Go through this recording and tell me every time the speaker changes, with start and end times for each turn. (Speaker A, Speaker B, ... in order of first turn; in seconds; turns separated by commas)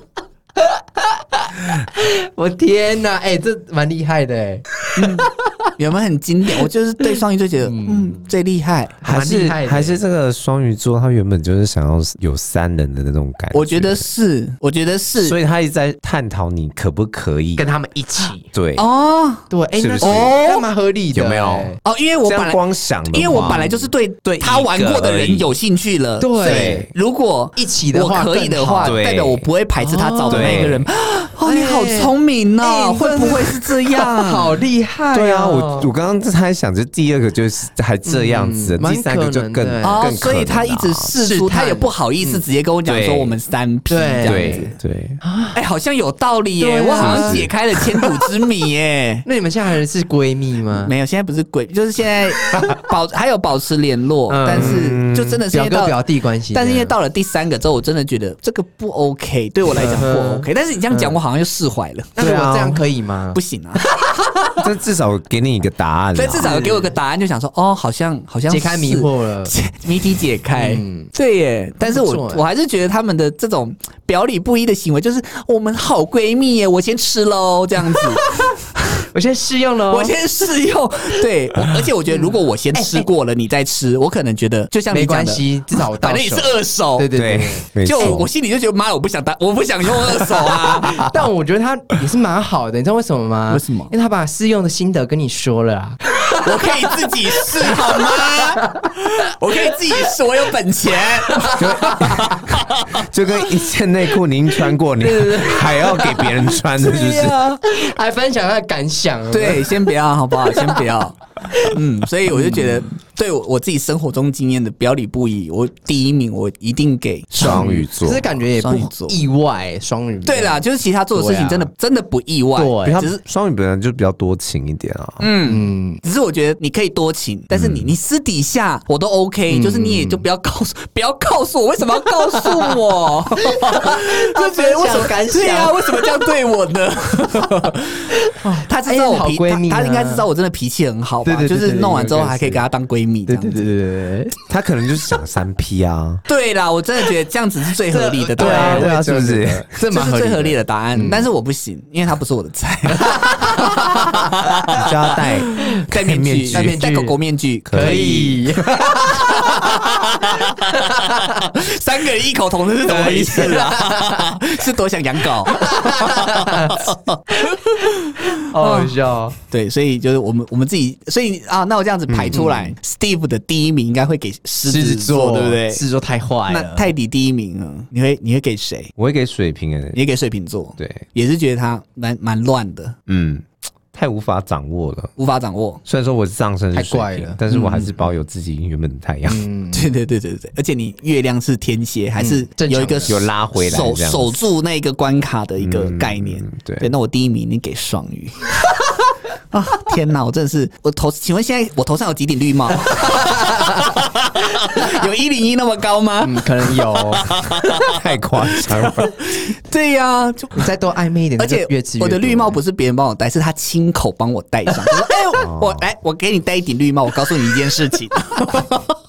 Speaker A: 0.6-5.7, Speaker B: 5.0-9.0, Speaker A: 6.6-8.2, Speaker C: 9.0-14.1, Speaker A: 9.0-10.0, Speaker B: 13.5-15.4, Speaker C: 15.2-17.6, Speaker A: 17.6-18.4, Speaker C: 18.5-18.8, Speaker B: 18.8-19.4, Speaker A: 19.5-21.8, Speaker C: 19.8-20.4, Speaker B: 20.0-20.6, Speaker C: 21.1-25.5, Speaker B: 21.8-34.5, Speaker A: 26.2-26.9, Speaker C: 26.4-26.9, Speaker A: 27.6-29.0, Speaker C: 28.8-29.5, Speaker A: 29.8-30.7, Speaker C: 30.3-30.9, Speaker A: 31.4-35.9, Speaker C: 35.1-41.1, Speaker A: 38.0-40.1, Speaker B: 39.8-44.8, Speaker A: 41.1-42.4, Speaker C: 42.8-43.3, Speaker A: 43.9-44.7, Speaker C: 44.2-45.2, Speaker A: 45.2-45.6, Speaker B: 45.5-49.2, Speaker A: 46.6-48.2, Speaker C: 47.0-47.5, Speaker A: 49.2-50.9, Speaker B: 50.8-56.0, Speaker A: 54.3-55.0, Speaker C: 54.5-55.4, Speaker A: 55.5-56.9, Speaker B: 56.5-62.5, Speaker A: 59.7-61.1, Speaker A: 62.2-64.7, Speaker C: 62.2-62.8, Speaker B: 63.3-63.8, Speaker C: 64.6-66.5, Speaker B: 66.1-78.9, Speaker A: 66.4-66.9, Speaker A: 68.5-69.5, Speaker A: 70.5-71.1, Speaker A: 71.8-72.4, Speaker A: 77.9-78.5, Speaker A: 79.1-80.1, Speaker B: 79.9-87.1, Speaker A: 81.6-83.0, Speaker A: 84.9-88.2, Speaker C: 87.1-88.3, Speaker B: 87.8-91.1, Speaker A: 90.4-99.0, Speaker B: 93.5-93.9, Speaker B: 96.4-103.0, Speaker A: 101.3-102.4, Speaker C: 101.6-107.4, Speaker A: 105.0-109.9, Speaker B: 106.8-107.6, Speaker B: 109.3-117.9, Speaker A: 110.5-110.8, Speaker A: 112.3-112.8, Speaker A: 117.3-121.7, Speaker C: 117.4-118.2, Speaker B: 118.6-119.2, Speaker B: 120.2-123.2, Speaker A: 122.5-123.0, Speaker C: 122.8-125.2, Speaker B: 125.2-143.7, Speaker A: 125.5-126.0, Speaker C: 127.5-127.9, Speaker A: 129.5-130.2, Speaker A: 132.4-132.7, Speaker A: 133.5-136.2, Speaker A: 137.3-137.7, Speaker A: 138.2-140.3, Speaker A: 141.2-142.6, Speaker A: 143.3-144.4, Speaker C: 144.5-146.2, Speaker B: 146.3-148.9, Speaker A: 147.8-151.3, Speaker C: 148.4-149.7, Speaker B: 149.8-154.9, Speaker A: 152.9-154.2, Speaker C: 154.7-156.8, Speaker B: 155.7-158.4, Speaker A: 156.5-157.2, Speaker C: 157.7-158.3, Speaker A: 157.7-161.4, Speaker B: 159.0-175.8, Speaker A: 162.9-164.3, Speaker A: 165.4-169.4, Speaker C: 172.1-172.7, Speaker A: 174.6-176.9, Speaker B: 176.5-178.9, Speaker C: 179.0-180.0, Speaker B: 179.9-182.9, Speaker C: 180.8-181.0, Speaker C: 183.1-185.1, Speaker B: 185.2-185.8, Speaker C: 185.8-189.4, Speaker A: 186.7-188.0, Speaker A: 189.2-189.9, Speaker B: 189.7-198.6, Speaker A: 192.2-193.2, Speaker C: 193.1-194.4, Speaker C: 195.6-196.9, Speaker B: 199.5-210.7, Speaker A: 202.9-203.9, Speaker A: 204.6-205.0, Speaker A: 206.2-207.6, Speaker C: 207.8-209.1, Speaker A: 210.6-212.6, Speaker B: 211.4-218.8, Speaker C: 215.3-215.8